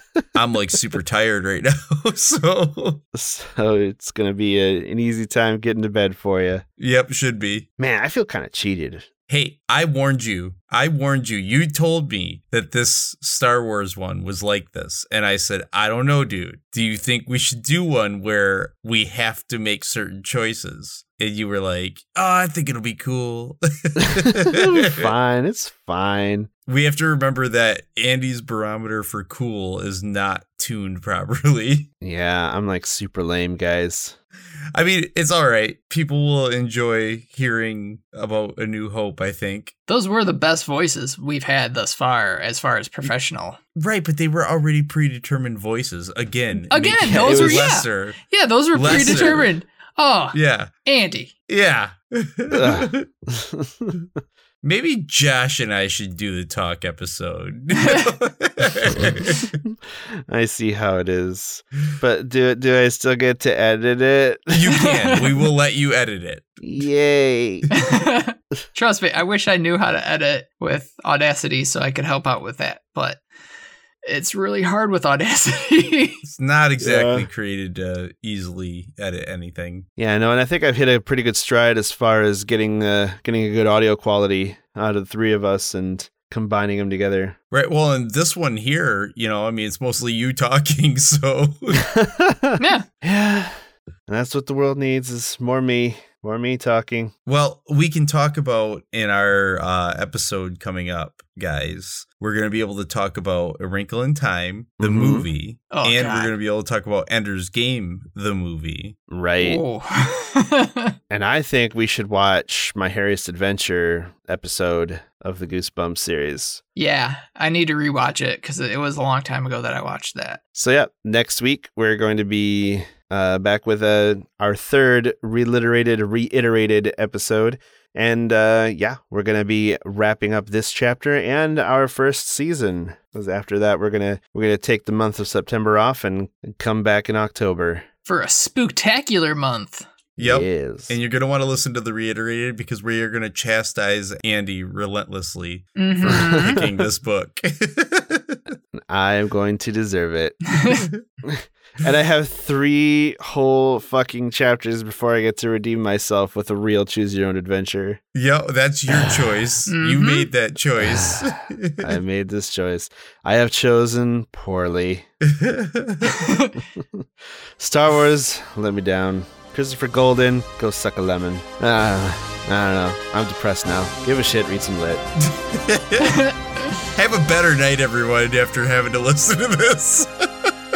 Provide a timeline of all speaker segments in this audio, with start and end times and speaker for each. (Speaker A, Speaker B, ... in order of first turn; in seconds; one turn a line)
Speaker A: 0.3-3.0
Speaker B: 3.1-6.6
Speaker A: 6.8-7.7
Speaker B: 7.8-9.1
Speaker A: 9.3-25.1
Speaker B: 24.1-26.5
Speaker A: 26.7-31.9
Speaker B: 32.0-34.2
Speaker A: 34.7-39.7
Speaker C: 39.9-43.6
Speaker A: 43.7-48.2
Speaker C: 46.7-51.3
Speaker B: 47.1-47.7
Speaker A: 48.7-49.5
Speaker B: 48.9-49.5
Speaker A: 50.3-50.7
Speaker A: 51.5-53.1
Speaker B: 52.5-54.0
Speaker A: 54.6-59.6
Speaker B: 60.3-64.8
Speaker A: 64.5-66.6
Speaker C: 64.8-65.3
Speaker B: 66.6-67.7
Speaker C: 67.7-73.2
Speaker C: 74.0-76.2
Speaker A: 76.2-79.9
Speaker B: 76.8-77.3
Speaker B: 80.0-87.4
Speaker A: 87.5-91.8
Speaker B: 91.8-97.1
Speaker C: 92.6-92.9
Speaker A: 97.3-109.0
Speaker B: 104.8-105.3
Speaker C: 105.7-106.3
Speaker B: 109.1-109.6
Speaker C: 109.4-111.0
Speaker B: 111.1-116.6
Speaker C: 116.8-120.4
Speaker B: 120.5-137.9
Speaker C: 138.1-139.9
Speaker A: 140.2-148.4
Speaker B: 140.2-140.9
Speaker C: 145.8-146.7
Speaker B: 146.0-146.6
Speaker B: 148.7-150.5
Speaker C: 150.5-150.9
Speaker B: 151.2-158.0
Speaker A: 158.1-161.9
Speaker C: 159.7-160.3
Speaker B: 160.8-165.1
Speaker A: 165.2-166.2
Speaker C: 166.1-166.6
Speaker B: 166.8-167.1
Speaker B: 167.6-175.0
Speaker A: 175.2-176.3
Speaker C: 176.0-176.3
Speaker A: 176.9-180.5